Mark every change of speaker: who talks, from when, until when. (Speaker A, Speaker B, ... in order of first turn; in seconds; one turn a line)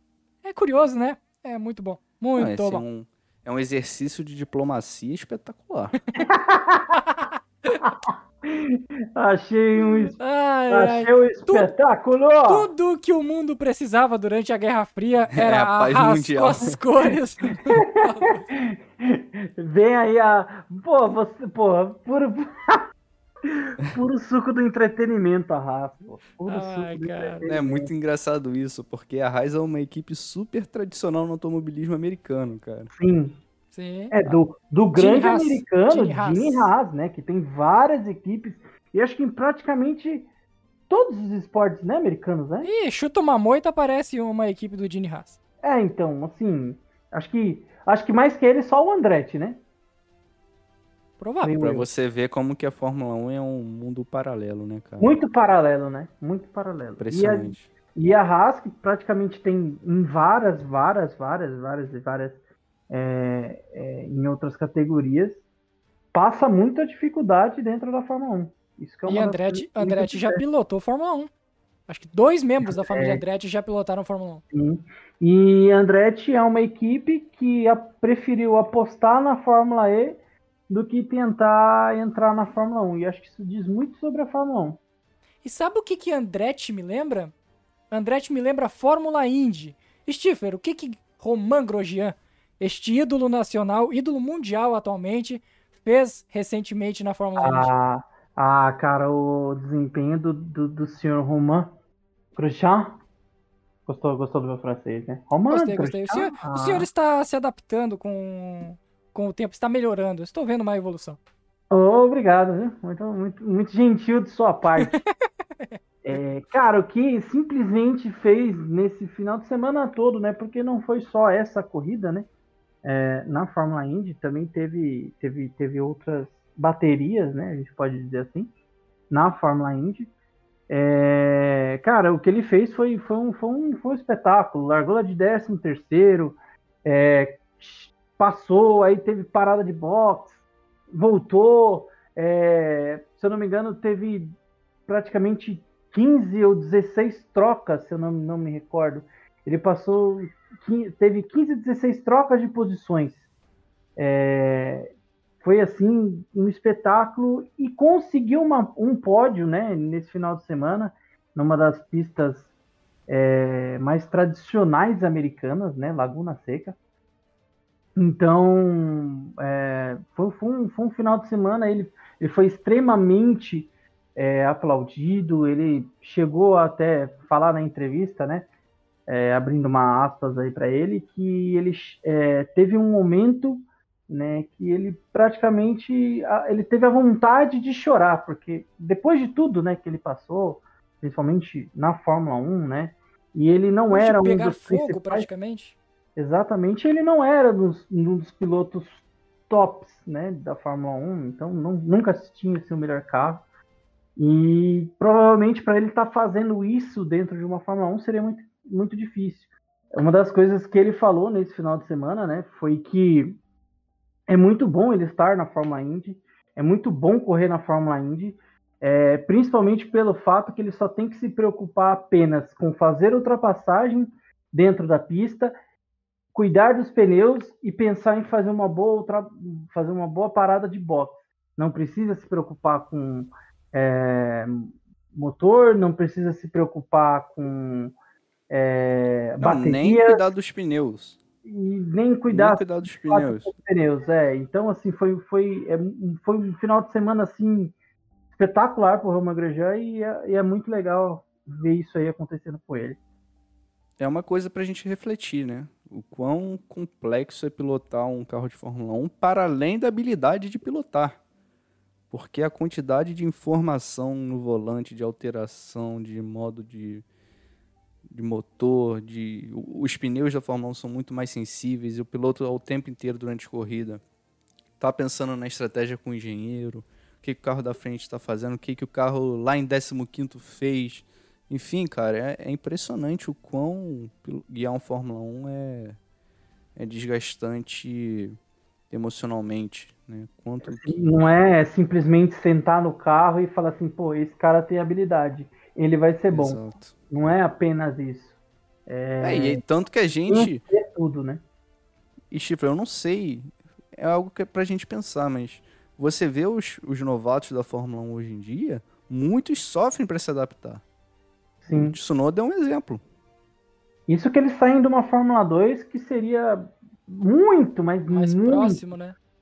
Speaker A: 0.4-2.8
Speaker B: 2.4-6.0
Speaker C: 6.2-7.0
Speaker A: 7.0-7.4
Speaker C: 7.8-10.2
Speaker A: 10.2-11.7
Speaker C: 10.7-12.7
Speaker A: 12.4-18.4
Speaker B: 15.3-16.8
Speaker C: 17.7-22.8
Speaker C: 23.4-27.9
Speaker A: 26.5-27.4
Speaker B: 27.5-32.9
Speaker C: 32.9-33.4
Speaker A: 33.7-34.4
Speaker C: 34.1-40.3
Speaker A: 34.9-36.7
Speaker C: 40.9-42.7
Speaker A: 42.6-45.4
Speaker C: 45.6-49.6
Speaker A: 51.2-51.6
Speaker C: 51.4-51.9
Speaker B: 51.6-55.2
Speaker C: 55.0-62.4
Speaker B: 57.0-57.7
Speaker C: 62.9-65.4
Speaker C: 66.1-70.4
Speaker A: 69.1-71.3
Speaker A: 71.9-74.4
Speaker C: 72.6-73.2
Speaker C: 74.5-84.8
Speaker A: 85.4-87.3
Speaker A: 87.9-97.7
Speaker C: 97.4-101.7
Speaker C: 102.4-103.0
Speaker C: 103.9-106.9
Speaker A: 105.5-111.2
Speaker C: 111.7-115.0
Speaker C: 116.0-122.3
Speaker C: 122.8-128.5
Speaker C: 129.1-130.1
Speaker C: 130.7-144.4
Speaker C: 144.9-153.2
Speaker C: 154.0-154.9
Speaker C: 155.4-162.5
Speaker C: 163.1-166.8
Speaker C: 168.0-178.5
Speaker C: 179.1-195.3
Speaker A: 193.9-195.8
Speaker C: 196.2-203.4
Speaker C: 204.2-213.4
Speaker C: 214.3-225.6
Speaker C: 226.3-237.9
Speaker C: 238.5-240.3
Speaker B: 239.4-241.2
Speaker C: 241.4-247.7
Speaker B: 242.3-243.5
Speaker C: 248.3-253.0
Speaker B: 254.0-261.2
Speaker B: 262.1-267.1
Speaker B: 268.1-274.0
Speaker B: 274.8-286.0
Speaker B: 286.8-288.4
Speaker B: 288.9-291.0
Speaker C: 290.6-298.4
Speaker B: 296.3-296.9
Speaker C: 298.9-299.6
Speaker B: 299.2-300.6
Speaker C: 300.3-301.4
Speaker B: 302.3-310.8
Speaker C: 311.6-312.0
Speaker B: 311.7-313.0
Speaker C: 314.1-318.9
Speaker A: 318.1-319.2